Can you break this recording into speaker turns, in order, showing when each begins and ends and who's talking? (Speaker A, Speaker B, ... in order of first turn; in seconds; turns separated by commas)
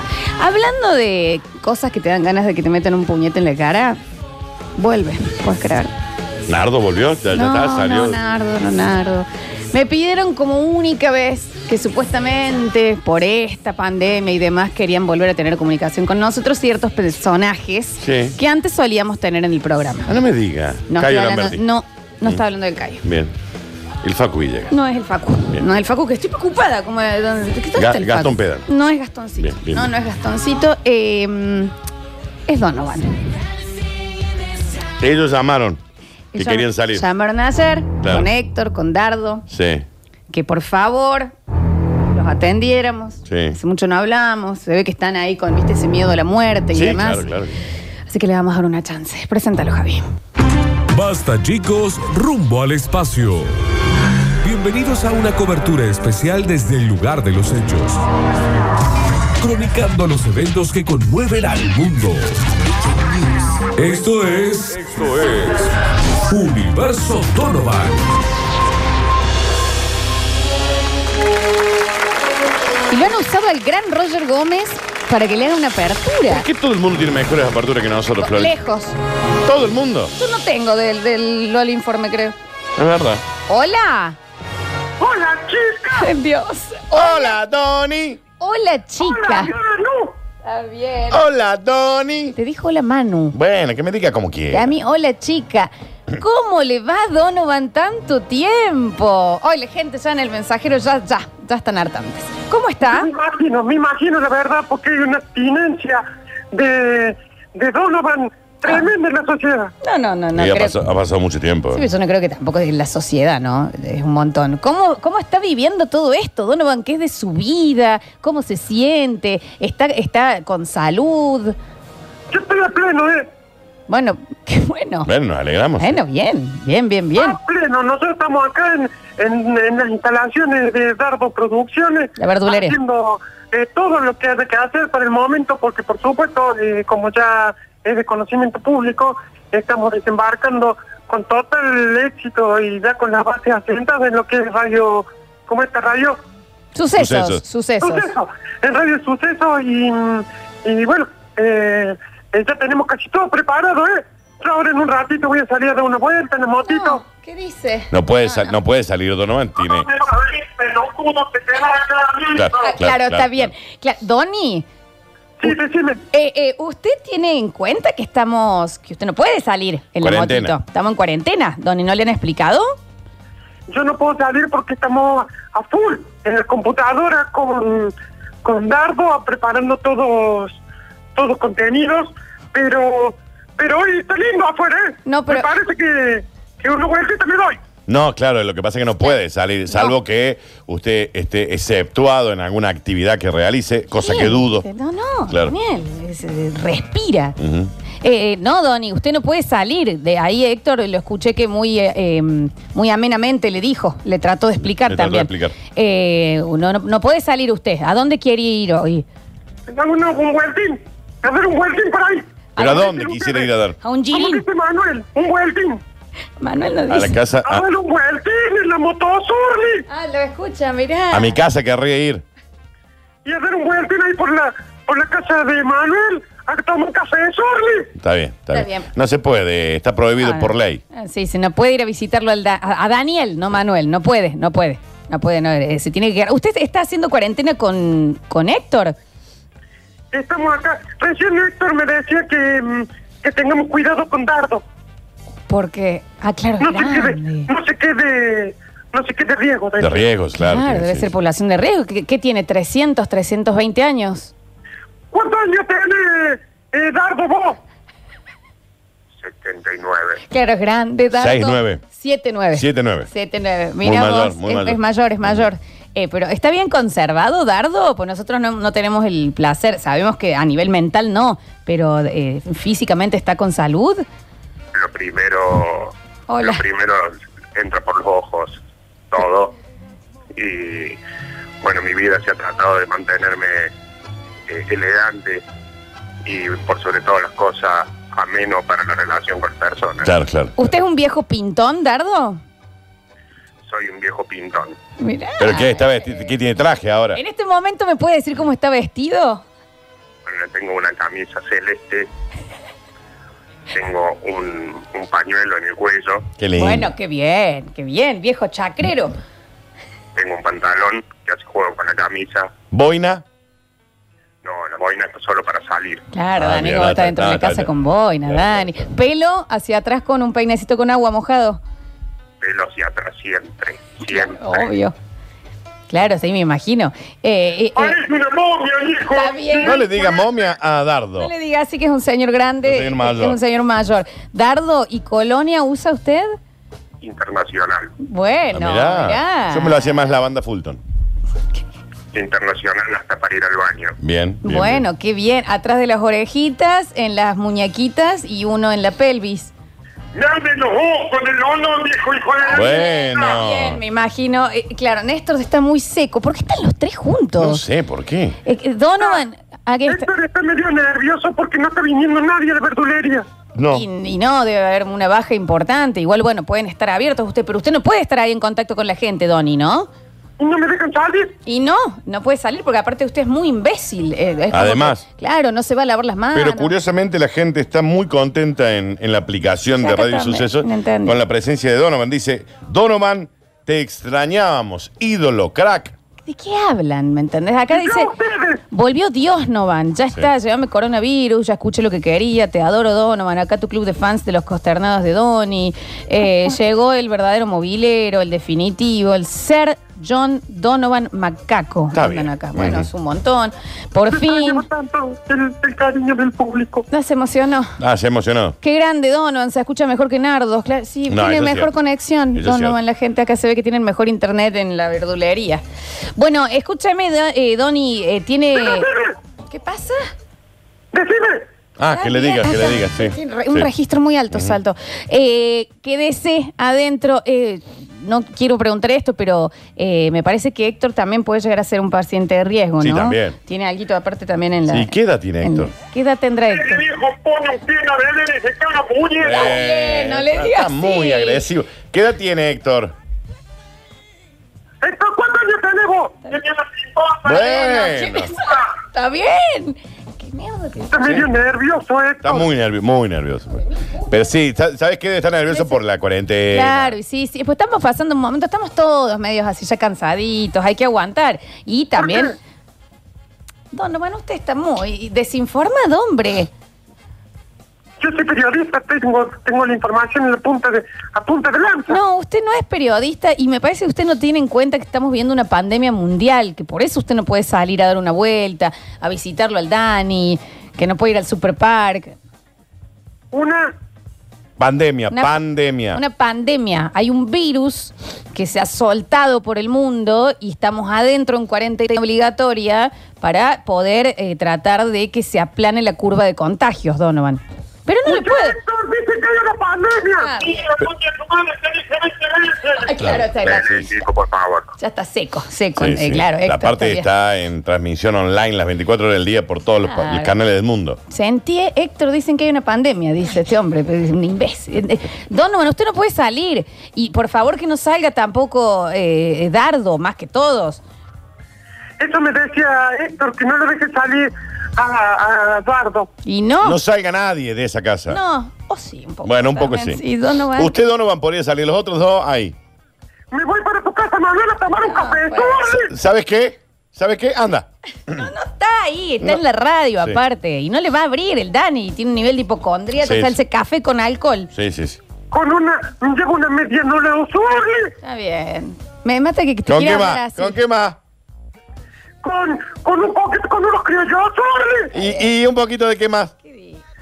Speaker A: 0.2-4.0, Speaker A: 4.8-5.9, Speaker B: 6.5-8.2, Speaker A: 7.3-20.1, Speaker B: 18.0-18.4, Speaker B: 20.1-21.6, Speaker A: 20.9-23.0, Speaker B: 23.0-23.3, Speaker B: 24.0-24.7, Speaker A: 24.7-31.7, Speaker B: 27.8-28.7, Speaker B: 29.4-29.9, Speaker A: 32.5-33.2, Speaker B: 35.0-35.8, Speaker A: 36.3-39.5, Speaker B: 36.3-37.0, Speaker B: 38.0-38.3, Speaker B: 39.5-39.9, Speaker A: 40.3-41.3, Speaker A: 42.1-47.3, Speaker B: 43.2-43.6, Speaker B: 46.7-47.6, Speaker A: 48.1-50.0, Speaker C: 50.9-53.5, Speaker C: 54.4-58.0, Speaker C: 59.4-62.4, Speaker C: 63.2-65.7, Speaker B: 64.8-65.4, Speaker C: 66.2-68.0, Speaker A: 72.9-76.4, Speaker B: 76.3-78.5, Speaker A: 78.2-79.0, Speaker B: 79.4-80.1, Speaker A: 80.2-82.3, Speaker B: 82.8-83.2, Speaker A: 83.5-84.2, Speaker D: 85.0-86.1, Speaker A: 85.9-87.3, Speaker B: 86.9-88.2, Speaker A: 88.4-89.5, Speaker D: 89.0-90.1, Speaker A: 90.4-91.2, Speaker B: 91.1-92.3, Speaker A: 92.3-93.3, Speaker B: 93.3-94.7, Speaker A: 94.5-103.1, Speaker D: 102.8-109.7, Speaker A: 109.8-110.8, Speaker B: 110.3-111.8, Speaker A: 111.7-121.5, Speaker D: 122.3-123.3, Speaker A: 123.9-125.1, Speaker B: 125.0-126.0, Speaker A: 125.8-127.4, Speaker D: 127.2-146.2, Speaker A: 132.2-132.8, Speaker A: 146.7-148.1, Speaker B: 146.9-147.4, Speaker D: 147.8-157.0, Speaker A: 156.6-158.5, Speaker B: 157.9-159.9, Speaker D: 159.6-162.6, Speaker B: 162.3-163.5, Speaker A: 162.6-164.7, Speaker D: 165.4-166.0, Speaker A: 166.1-172.7, Speaker B: 170.0-170.6, Speaker D: 173.7-177.9, Speaker D: 178.4-180.6, Speaker D: 181.1-187.6, Speaker A: 185.1-185.5, Speaker B: 187.9-194.7, Speaker A: 189.7-189.9, Speaker A: 193.9-197.4, Speaker B: 195.3-195.5, Speaker B: 197.4-197.7, Speaker A: 198.0-209.1, Speaker B: 204.8-205.6, Speaker D: 209.7-213.5, Speaker B: 212.6-213.8, Speaker A: 213.8-214.4, Speaker D: 214.1-215.8, Speaker A: 216.4-217.2, Speaker B: 216.9-217.6, Speaker D: 217.4-219.8, Speaker A: 219.9-221.4, Speaker B: 221.1-222.2, Speaker D: 223.2-227.9, Speaker B: 228.0-230.8, Speaker A: 228.5-228.9, Speaker A: 230.2-238.9, Speaker D: 240.1-244.6, Speaker A: 245.5-247.5, Speaker D: 246.6-250.1, Speaker B: 249.8-251.1, Speaker A: 250.3-254.3, Speaker D: 255.1-257.6, Speaker E: 259.2-260.2, Speaker A: 260.3-274.0, Speaker B: 261.1-261.8, Speaker B: 262.5-263.1, Speaker B: 263.8-265.5, Speaker E: 274.7-278.6, Speaker A: 276.3-276.6, Speaker E: 279.1-279.5, Speaker E: 280.3-281.0, Speaker E: 281.6-283.7, Speaker E: 284.5-285.4, Speaker E: 286.2-290.1, Speaker B: 290.0-290.5, Speaker A: 290.6-292.4, Speaker E: 293.7-294.8, Speaker A: 295.0-296.3, Speaker B: 295.4-297.2, Speaker A: 297.1-299.4, Speaker E: 300.2-302.1, Speaker E: 303.7-306.3, Speaker B: 306.4-306.9, Speaker A: 306.6-309.1, Speaker E: 310.1-312.5, Speaker B: 312.7-313.2, Speaker E: 314.4-316.0, Speaker A: 316.1-321.6, Speaker B: 316.4-317.7, Speaker B: 318.3-318.7, Speaker E: 322.4-324.7, Speaker A: 324.1-324.9, Speaker A: 325.9-328.0, Speaker D: 327.8-329.8, Speaker A: 329.1-330.2, Speaker B: 329.6-331.3, Speaker A: 331.2-336.3, Speaker B: 332.6-333.4, Speaker E: 337.0-337.9, Speaker A: 338.0-340.0, Speaker B: 338.5-340.8, Speaker E: 342.1-343.9, Speaker B: 344.0-344.8, Speaker A: 344.4-349.5, Speaker E: 350.1-352.6, Speaker A: 352.4-357.6, Speaker B: 352.5-353.8, Speaker B: 357.4-358.4, Speaker A: 358.4-360.1, Speaker D: 359.9-363.3, Speaker B: 363.6-363.8, Speaker A: 363.7-369.9, Speaker D: 370.4-371.3, Speaker A: 371.4-376.7, Speaker B: 374.5-375.0, Speaker B: 376.3-385.9, Speaker A: 379.8-381.2, Speaker A: 386.2-388.1, Speaker D: 387.7-388.6, Speaker A: 388.7-404.6, Speaker B: 401.9-402.9, Speaker D: 404.1-406.9, Speaker A: 406.9-407.8, Speaker B: 407.8-408.6, Speaker A: 408.6-415.6, Speaker B: 411.1-411.7, Speaker B: 412.3-412.8, Speaker A: 416.1-418.9, Speaker D: 418.5-419.1, Speaker A: 419.5-420.1, Speaker D: 420.9-421.4, Speaker B: 421.8-423.7, Speaker A: 421.9-436.8, Speaker B: 424.3-424.6, Speaker B: 432.8-433.4, Speaker B: 434.7-435.7, Speaker D: 436.5-439.5, Speaker B: 439.2-442.9, Speaker A: 439.3-441.4, Speaker D: 444.8-447.7, Speaker B: 447.2-448.3, Speaker A: 447.4-451.1, Speaker D: 450.9-452.5, Speaker B: 452.2-456.9, Speaker A: 455.5-455.8, Speaker A: 456.5-462.4, Speaker D: 462.0-462.3, Speaker A: 463.7-466.5, Speaker D: 468.0-472.0, Speaker A: 471.9-482.1, Speaker D: 483.3-483.7, Speaker B: 484.6-486.0, Speaker A: 485.1-485.4, Speaker A: 485.9-498.6, Speaker D: 498.1-502.9, Speaker A: 500.2-500.7, Speaker A: 502.8-503.8, Speaker B: 503.0-503.8, Speaker E: 503.4-504.7, Speaker A: 504.8-507.1, Speaker B: 505.8-511.0, Speaker A: 509.8-510.3, Speaker A: 511.1-520.8, Speaker D: 522.0-526.1, Speaker A: 526.2-526.8, Speaker B: 526.6-528.2, Speaker A: 528.1-530.8, Speaker B: 529.2-530.0, Speaker B: 530.5-532.5, Speaker D: 533.3-535.9, Speaker A: 534.8-535.6, Speaker B: 535.7-538.2, Speaker A: 538.1-544.5, Speaker B: 543.0-543.4, Speaker B: 544.5-545.0, Speaker D: 545.3-547.9, Speaker A: 548.0-550.6, Speaker B: 549.7-551.0, Speaker D: 552.2-554.9, Speaker B: 554.9-556.3, Speaker A: 555.0-555.2, Speaker A: 556.4-556.8